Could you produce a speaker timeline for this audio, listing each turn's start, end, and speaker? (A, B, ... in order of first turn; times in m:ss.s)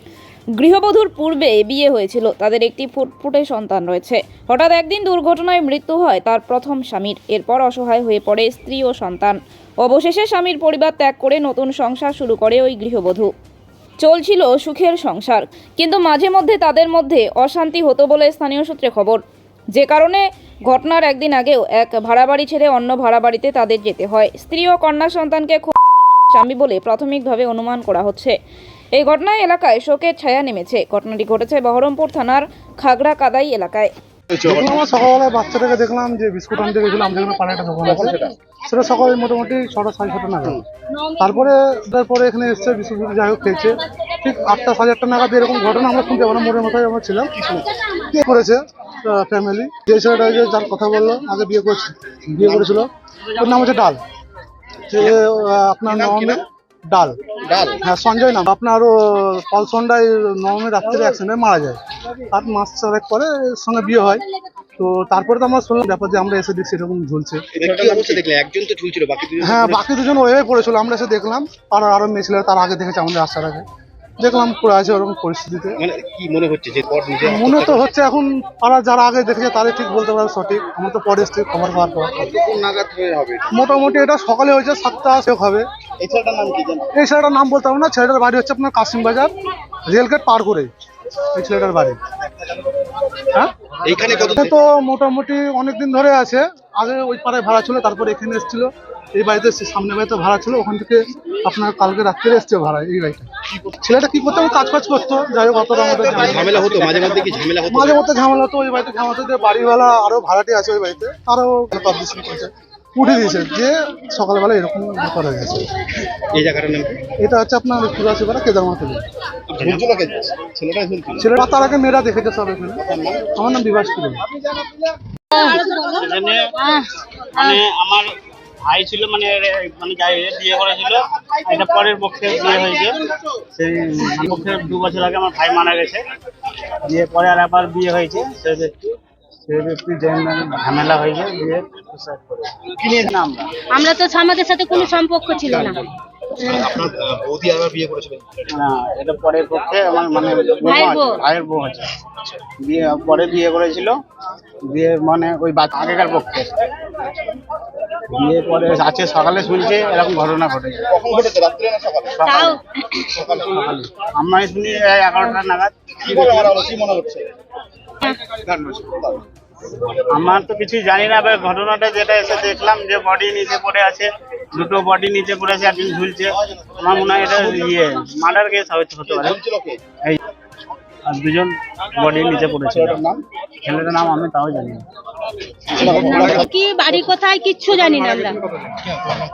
0:00.6-0:13.3 A
0:14.0-0:19.2 A
0:19.7-0:25.8 A
0:26.3-0:28.4 A
0:29.0-0:33.9 A
0:34.3-0:34.8 B
0:34.4-0:47.3 C
0:37.9-0:38.3 B
0:47.4-0:47.7 B
0:48.0-0:54.0 C
0:52.5-0:52.8 B
0:54.9-0:55.2 B
0:54.9-0:57.2 C
0:55.9-0:56.4 B
0:57.4-0:57.8 B
0:57.8-1:04.2 C
1:04.8-1:08.2 C
1:07.5-1:09.8 B
1:09.4-1:13.6 C
1:14.2-1:15.8 C
1:15.8-1:17.8 B
1:17.2-1:22.3 C
1:22.2-1:23.6 B
1:23.5-1:25.7 C
1:26.0-1:26.9 B
1:27.0-1:29.3 C
1:29.8-1:30.7 C
1:31.3-1:32.0 C
1:33.8-1:34.5 B
1:34.2-1:55.7 C
1:45.8-1:48.0 B
1:56.3-1:57.1 B
1:57.2-1:59.0 C
1:59.5-2:01.3 B
2:01.2-2:04.2 C
2:02.8-2:03.2 D
2:05.3-2:07.6 E
2:05.8-2:06.5 D
2:07.3-2:08.1 D
2:08.7-2:12.9 D
2:13.5-2:16.0 D
2:16.8-2:18.8 D
2:19.5-2:23.6 D
2:22.8-2:23.1 B
2:23.7-2:25.8 E
2:25.5-2:25.8 B
2:26.4-2:28.3 B
2:28.5-2:32.0 D
2:30.6-2:31.2 E
2:32.5-2:34.0 D
2:34.7-2:36.5 D
2:38.1-2:41.0 D
2:40.9-2:42.2 B
2:42.2-2:42.6 D
2:42.2-2:43.1 E
2:43.2-2:43.5 B
2:43.3-2:46.6 D
2:46.0-2:47.3 B
2:48.5-2:49.0 D
2:48.9-2:49.2 B
2:49.8-2:59.4 D
2:59.1-2:59.8 B
3:01.1-3:03.0 D
3:02.7-3:03.2 B
3:03.6-3:04.8 D
3:05.7-3:06.4 D
3:05.8-3:06.5 B
3:05.8-3:08.4 E
3:07.9-3:08.8 C
3:08.9-3:09.2 B